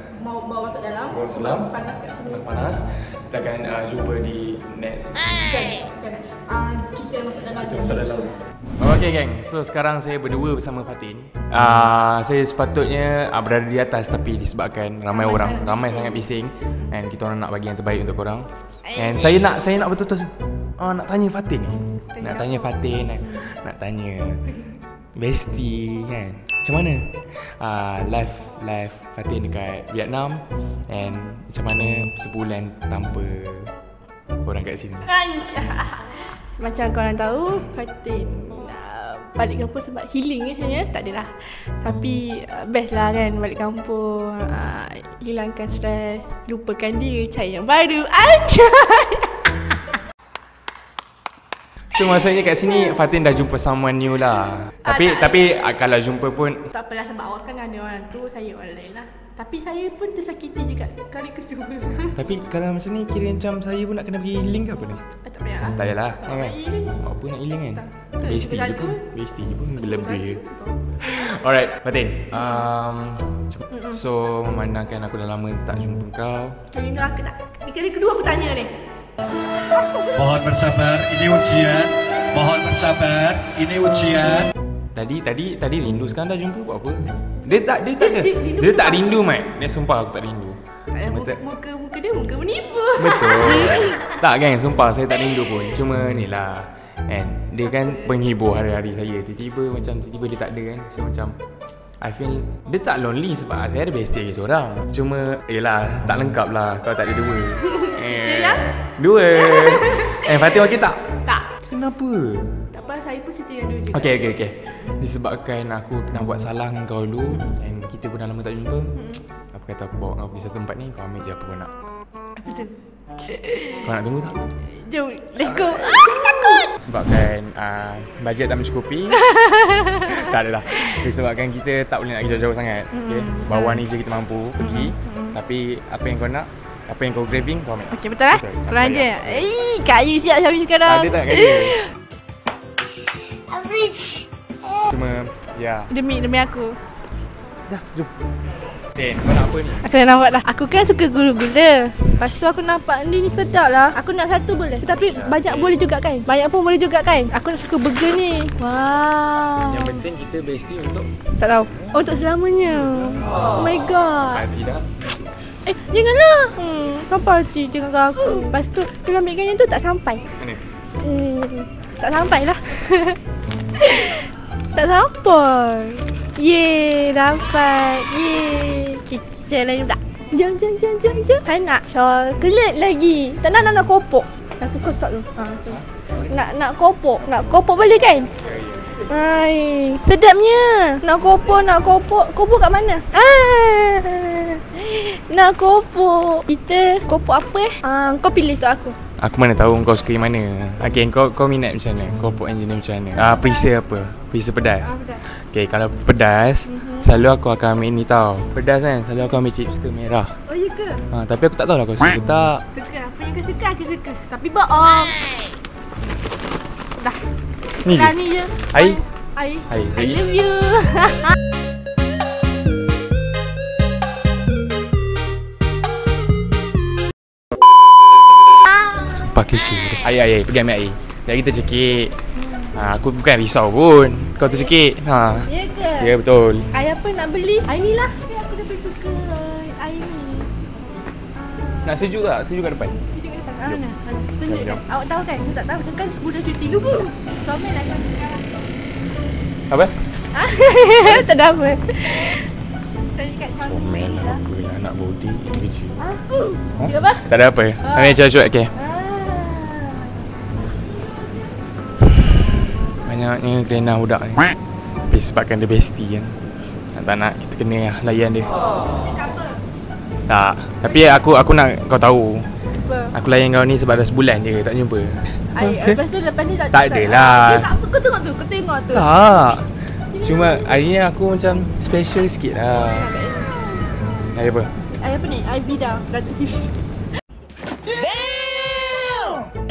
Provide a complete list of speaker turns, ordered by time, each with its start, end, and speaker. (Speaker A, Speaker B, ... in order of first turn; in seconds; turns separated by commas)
Speaker A: 0.2-2.4, Speaker B: 1.1-1.7, Speaker B: 2.2-5.4, Speaker A: 5.4-8.3, Speaker B: 7.6-24.4, Speaker A: 15.1-16.8, Speaker A: 18.9-19.5, Speaker A: 22.1-22.7, Speaker B: 25.1-33.7, Speaker B: 34.4-35.1, Speaker A: 35.0-49.9, Speaker B: 51.9-56.7, Speaker A: 52.7-52.9, Speaker A: 54.8-55.6, Speaker A: 56.7-62.2, Speaker B: 62.1-65.0, Speaker A: 65.1-67.0, Speaker B: 65.7-70.4, Speaker A: 67.7-69.0, Speaker A: 69.8-70.8, Speaker B: 71.0-76.6, Speaker A: 72.3-72.7, Speaker A: 76.7-78.7, Speaker A: 79.6-80.2, Speaker C: 80.1-84.5, Speaker B: 84.9-91.4, Speaker A: 88.0-89.1, Speaker A: 90.9-94.2, Speaker B: 92.9-101.4, Speaker A: 97.7-98.2, Speaker B: 102.0-111.0, Speaker A: 107.7-108.6, Speaker A: 109.4-110.3, Speaker B: 111.6-112.6, Speaker A: 112.7-114.3, Speaker B: 113.9-118.9, Speaker A: 119.0-119.2, Speaker B: 119.5-121.7, Speaker A: 122.3-123.9, Speaker B: 123.8-124.4, Speaker A: 124.7-126.7, Speaker B: 125.4-126.0, Speaker B: 126.6-129.3, Speaker A: 129.2-130.2, Speaker B: 129.9-139.5, Speaker A: 132.9-133.8, Speaker A: 134.6-135.3, Speaker A: 137.9-141.9, Speaker B: 140.8-141.8, Speaker A: 143.5-144.2, Speaker B: 144.8-145.9, Speaker A: 145.9-146.8, Speaker B: 147.7-148.1, Speaker B: 148.9-149.9, Speaker A: 149.8-160.0, Speaker B: 154.9-155.8, Speaker B: 159.6-161.1, Speaker A: 161.4-164.4, Speaker B: 161.7-162.2, Speaker B: 162.7-163.6, Speaker B: 164.2-165.1, Speaker A: 165.7-170.2, Speaker B: 170.3-170.6, Speaker A: 171.0-173.2, Speaker A: 173.7-188.3, Speaker B: 185.7-186.4, Speaker A: 189.0-198.9, Speaker B: 199.2-210.3, Speaker A: 203.2-203.7, Speaker A: 204.8-205.2, Speaker A: 206.7-207.1, Speaker A: 210.5-211.0, Speaker B: 211.1-212.6, Speaker A: 212.7-215.3, Speaker A: 217.0-217.3, Speaker B: 217.8-219.0, Speaker A: 217.8-221.3, Speaker B: 219.7-220.2, Speaker B: 229.0-232.1, Speaker A: 232.4-232.7, Speaker B: 232.7-236.7, Speaker A: 234.4-234.7, Speaker A: 235.4-236.1, Speaker A: 236.7-240.5, Speaker A: 241.3-242.1, Speaker B: 241.8-243.0, Speaker A: 243.1-248.7, Speaker B: 244.4-244.8, Speaker B: 249.7-249.9, Speaker A: 250.3-252.5, Speaker A: 253.1-254.4, Speaker B: 253.6-256.0, Speaker A: 256.0-257.2, Speaker B: 256.7-258.7, Speaker A: 257.8-258.2, Speaker A: 258.7-260.2, Speaker B: 263.0-264.5, Speaker B: 265.1-266.4, Speaker B: 266.9-268.6, Speaker A: 269.0-269.6, Speaker B: 270.3-272.5, Speaker A: 270.9-271.2, Speaker A: 272.8-273.1, Speaker B: 273.1-276.0, Speaker A: 275.5-279.1, Speaker B: 276.7-277.7, Speaker B: 278.9-283.1, Speaker A: 280.1-280.8, Speaker A: 282.9-283.6, Speaker B: 284.3-284.7, Speaker A: 284.9-286.7, Speaker A: 288.7-289.4